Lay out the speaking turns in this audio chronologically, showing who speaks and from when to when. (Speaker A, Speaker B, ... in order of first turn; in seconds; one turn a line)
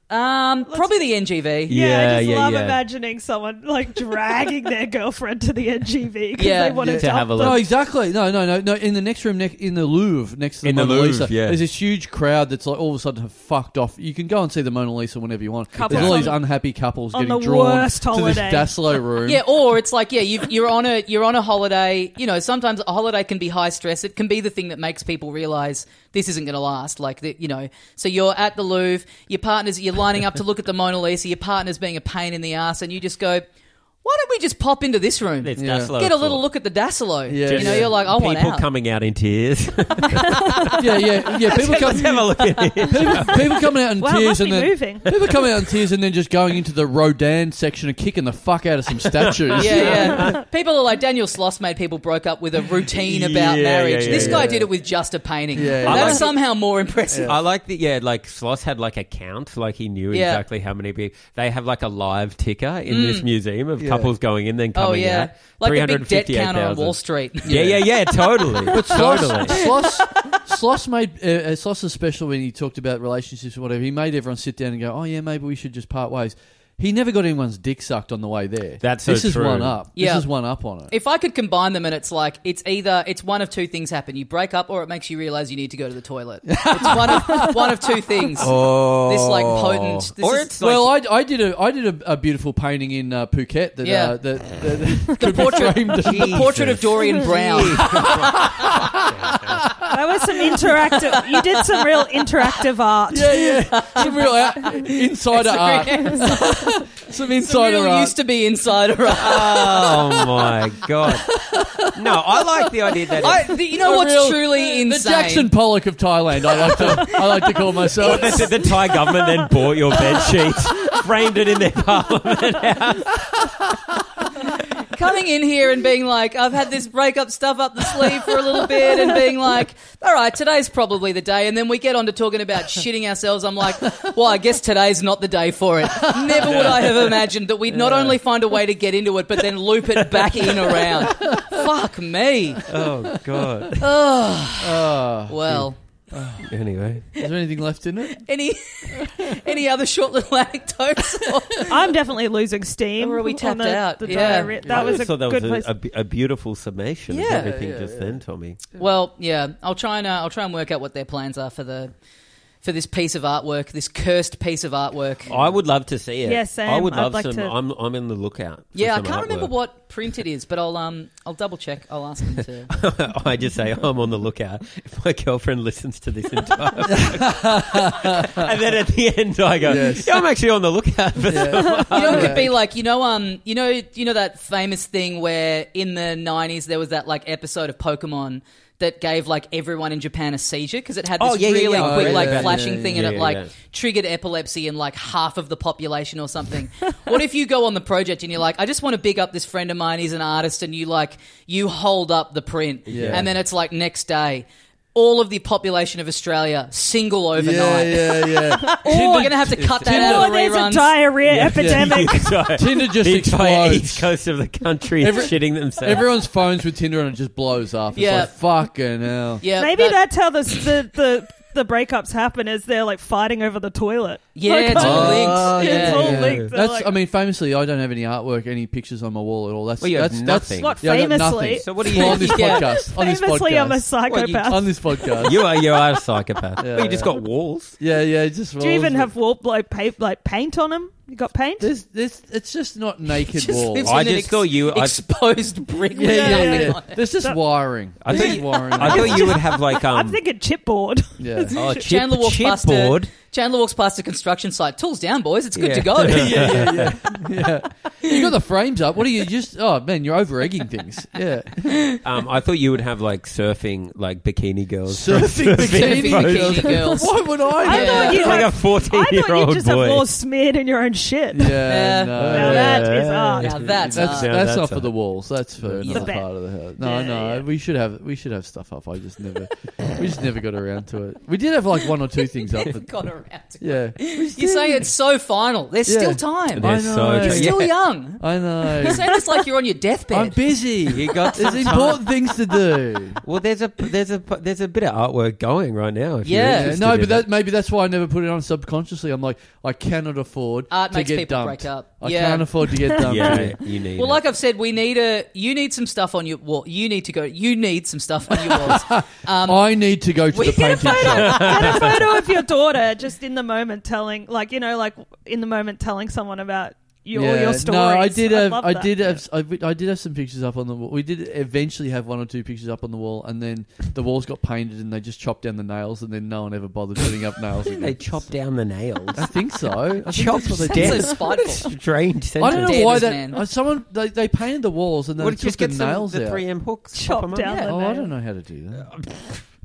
Speaker A: 0.1-1.8
Speaker B: 1.7-2.8
Speaker C: 1.7-7.5
Speaker A: 6.4-6.9
Speaker D: 6.8-19.4
Speaker B: 6.8-7.6
Speaker B: 10.6-11.6
Speaker C: 15.7-16.4
Speaker B: 15.9-16.2
Speaker C: 17.1-18.8
Speaker A: 19.2-33.5
Speaker A: 34.0-38.7
Speaker B: 35.4-36.5
Speaker D: 35.6-35.9
Speaker D: 37.3-37.9
Speaker B: 37.5-43.6
Speaker D: 40.8-50.2
Speaker A: 41.5-42.8
Speaker C: 44.0-45.3
Speaker B: 49.0-50.4
Speaker A: 49.5-57.4
Speaker B: 52.9-54.5
Speaker D: 54.0-54.7
Speaker D: 55.5-56.3
Speaker B: 55.9-56.4
Speaker D: 57.1-57.4
Speaker B: 57.2-69.6
Speaker A: 60.1-60.4
Speaker A: 62.9-63.3
Speaker D: 63.8-64.1
Speaker A: 64.8-67.8
Speaker D: 67.5-67.9
Speaker A: 68.5-70.4
Speaker D: 68.7-80.9
Speaker B: 78.8-79.8
Speaker A: 80.0-80.3
Speaker A: 80.9-90.5
Speaker D: 86.5-87.8
Speaker B: 88.4-91.0
Speaker D: 88.4-88.8
Speaker D: 90.6-97.0
Speaker A: 93.8-94.2
Speaker A: 95.2-98.2
Speaker B: 96.0-99.7
Speaker D: 97.6-100.6
Speaker C: 99.9-103.6
Speaker A: 101.2-102.3
Speaker D: 103.1-108.2
Speaker A: 103.5-110.2
Speaker B: 109.2-111.3
Speaker D: 111.1-118.7
Speaker B: 111.9-113.5
Speaker A: 113.2-115.5
Speaker A: 116.5-118.7
Speaker B: 118.0-123.4
Speaker A: 124.4-142.7
Speaker D: 135.9-136.6
Speaker B: 136.4-137.0
Speaker D: 137.7-138.2
Speaker D: 141.1-141.6
Speaker B: 142.7-143.9
Speaker D: 142.7-143.5
Speaker A: 143.8-145.8
Speaker D: 144.6-146.5
Speaker B: 146.4-147.1
Speaker D: 147.1-148.2
Speaker A: 148.2-151.8
Speaker D: 148.9-149.4
Speaker C: 151.7-155.7
Speaker A: 153.0-154.6
Speaker D: 154.6-155.1
Speaker B: 154.6-158.6
Speaker A: 157.1-157.6
Speaker D: 157.3-158.2
Speaker A: 158.8-161.9
Speaker A: 162.6-165.4
Speaker B: 165.3-169.5
Speaker C: 166.2-167.5
Speaker A: 168.8-172.7
Speaker B: 172.7-182.5
Speaker D: 177.0-178.5
Speaker D: 179.6-180.2
Speaker D: 181.3-182.5
Speaker A: 181.9-211.1
Speaker B: 191.2-193.5
Speaker D: 191.8-193.2
Speaker B: 202.9-203.3
Speaker D: 202.9-203.3
Speaker D: 207.4-210.3
Speaker B: 209.5-209.8
Speaker C: 209.8-212.6
Speaker B: 211.3-216.4
Speaker D: 211.3-214.1
Speaker D: 215.0-219.4
Speaker A: 217.9-218.3
Speaker A: 219.4-220.0
Speaker C: 219.6-226.9
Speaker A: 224.3-226.3
Speaker D: 224.7-235.4
Speaker B: 225.9-226.5
Speaker B: 229.8-230.8
Speaker C: 230.6-235.8
Speaker B: 231.6-232.7
Speaker A: 232.2-232.7
Speaker B: 234.1-237.8
Speaker D: 236.6-237.2
Speaker D: 237.8-239.1
Speaker C: 238.6-241.7
Speaker D: 241.6-244.0
Speaker A: 243.2-247.0
Speaker B: 243.8-245.0
Speaker D: 245.9-249.4
Speaker C: 246.0-247.4
Speaker B: 248.0-250.2
Speaker C: 248.1-251.8
Speaker D: 251.2-251.6
Speaker B: 251.5-253.1
Speaker A: 251.8-256.7
Speaker B: 255.6-257.0
Speaker D: 256.0-261.9
Speaker B: 262.0-266.9
Speaker D: 264.9-268.3
Speaker A: 265.6-268.5
Speaker C: 267.6-273.6
Speaker B: 267.9-270.1
Speaker D: 271.3-272.9
Speaker A: 271.7-274.3
Speaker B: 272.3-274.9
Speaker D: 273.9-282.9
Speaker A: 275.8-276.2
Speaker C: 275.9-276.3
Speaker A: 276.8-277.4
Speaker A: 282.4-288.2
Speaker D: 283.6-284.9
Speaker D: 285.9-287.6
Speaker B: 286.6-287.7
Speaker D: 288.2-289.1
Speaker A: 288.8-290.4
Speaker D: 290.1-293.2
Speaker B: 290.9-292.1
Speaker A: 291.1-291.9
Speaker B: 293.2-297.3
Speaker A: 296.2-296.8
Speaker D: 296.4-303.6
Speaker A: 300.7-302.8
Speaker C: 303.0-303.4
Speaker B: 303.0-304.2
Speaker A: 304.0-309.7
Speaker D: 308.4-311.9
Speaker A: 310.3-311.9
Speaker C: 310.6-318.9
Speaker B: 311.1-312.0
Speaker D: 317.1-327.9
Speaker B: 327.7-329.4
Speaker D: 329.1-331.2
Speaker B: 330.0-333.1
Speaker A: 330.7-331.7
Speaker D: 332.4-336.4
Speaker A: 332.4-333.4
Speaker B: 335.2-337.6
Speaker C: 336.9-338.1
Speaker A: 337.4-337.7
Speaker D: 337.7-338.9
Speaker B: 338.8-339.4